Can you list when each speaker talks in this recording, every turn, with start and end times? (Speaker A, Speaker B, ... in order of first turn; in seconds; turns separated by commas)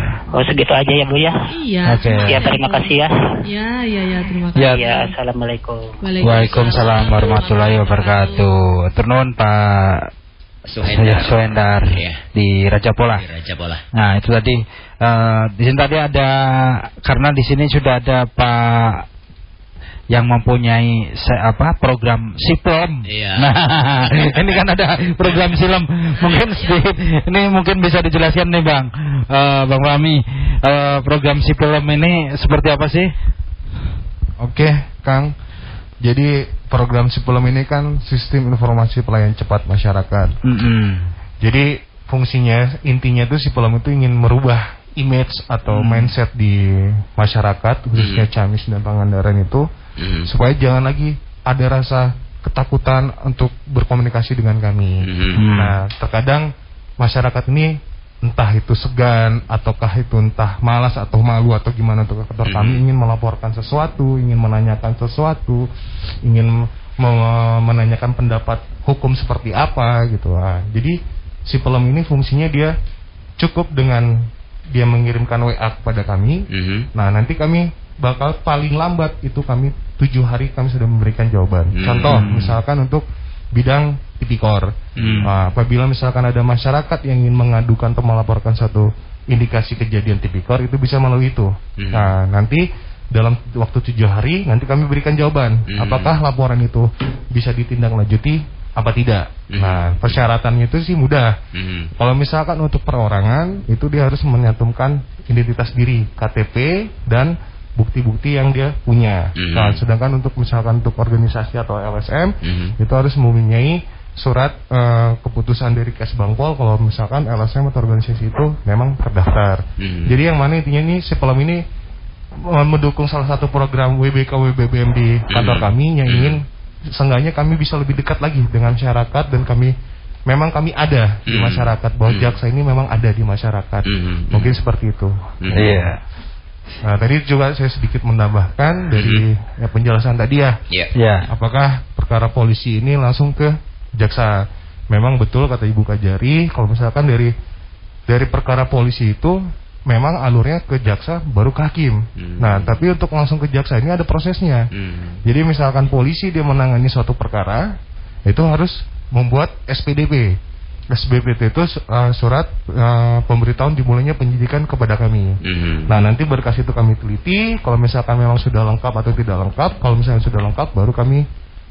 Speaker A: 0.3-1.3, Speaker B: 1.5-2.9, Speaker C: 1.9-2.4, Speaker A: 2.2-3.1, Speaker B: 3.4-5.1, Speaker A: 4.7-6.0, Speaker B: 6.0-8.4, Speaker C: 6.2-10.1, Speaker A: 6.5-6.8, Speaker D: 10.7-12.2, Speaker C: 10.8-13.2, Speaker D: 13.1-13.8, Speaker C: 13.9-19.1, Speaker C: 20.1-33.1, Speaker D: 23.1-24.4, Speaker B: 26.2-26.8, Speaker E: 34.4-35.3, Speaker E: 36.0-40.3, Speaker C: 40.4-41.1, Speaker E: 41.4-49.7, Speaker C: 45.7-46.1, Speaker D: 48.0-48.3, Speaker D: 50.0-50.3, Speaker E: 50.2-56.5, Speaker D: 55.0-55.4, Speaker C: 55.4-55.8, Speaker E: 57.0-65.7, Speaker D: 62.5-62.8, Speaker E: 66.2-71.0, Speaker E: 71.5-72.7, Speaker E: 73.4-101.3, Speaker D: 76.5-76.9, Speaker D: 81.7-82.2, Speaker C: 82.1-82.5, Speaker D: 85.0-85.3, Speaker C: 85.0-85.3, Speaker D: 91.8-92.1, Speaker D: 95.7-96.1, Speaker D: 99.5-100.2, Speaker D: 101.5-101.9, Speaker E: 102.0-121.6, Speaker D: 109.4-109.8, Speaker D: 112.4-112.7, Speaker D: 119.8-120.2, Speaker E: 122.4-129.7, Speaker D: 125.3-126.4, Speaker E: 130.3-135.1, Speaker D: 131.3-132.3, Speaker D: 133.8-134.6, Speaker D: 135.4-135.8, Speaker C: 135.5-136.0, Speaker E: 136.8-140.6, Speaker D: 138.9-139.2, Speaker C: 140.9-141.3, Speaker E: 141.3-147.3, Speaker E: 148.1-154.7, Speaker D: 152.2-152.8, Speaker D: 154.7-155.2, Speaker E: 155.2-160.4, Speaker E: 160.9-171.2, Speaker D: 165.4-165.9